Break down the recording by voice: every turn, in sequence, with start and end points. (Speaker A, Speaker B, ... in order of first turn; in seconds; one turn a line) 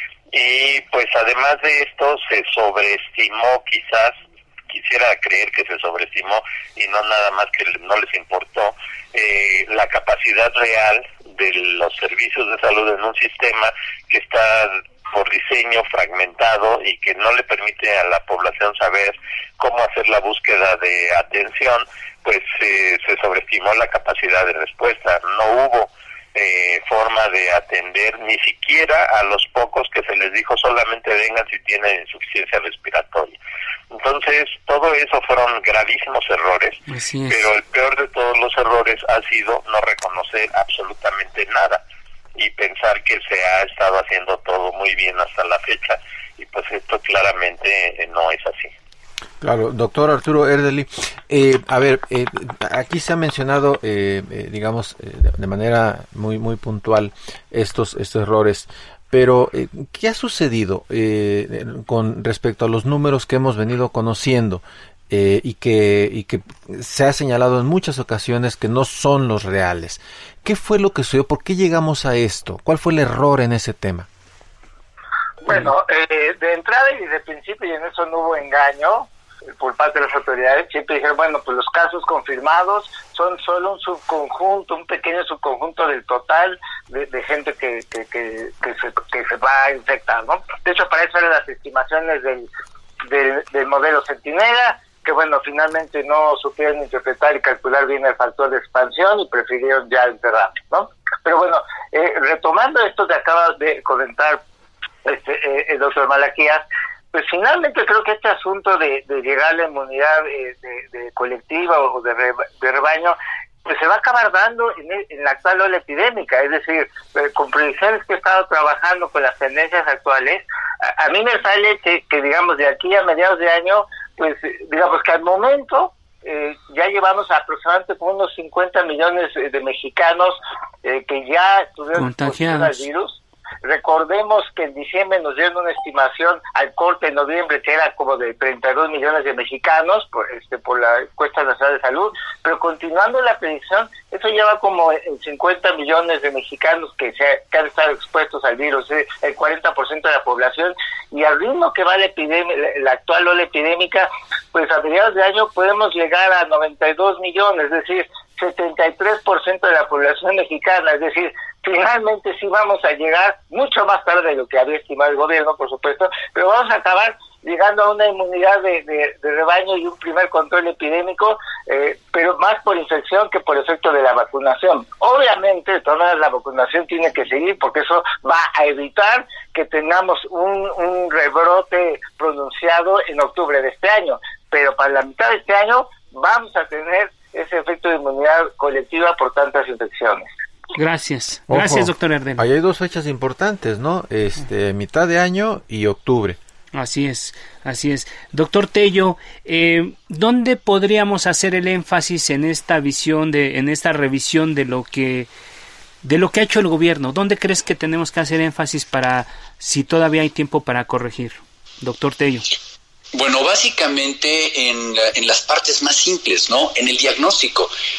Speaker A: 0.3-4.2
Speaker A: 4.7-33.4
Speaker A: 33.9-41.8
Speaker B: 36.9-37.5
Speaker A: 42.4-48.7
Speaker C: 49.4-74.1
Speaker D: 75.5-92.5
Speaker D: 93.1-104.4
Speaker D: 105.0-190.3
Speaker B: 131.9-132.8
Speaker B: 190.8-192.4
Speaker C: 191.5-196.4
Speaker B: 196.7-205.3
Speaker B: 206.0-212.5
Speaker E: 213.1-217.7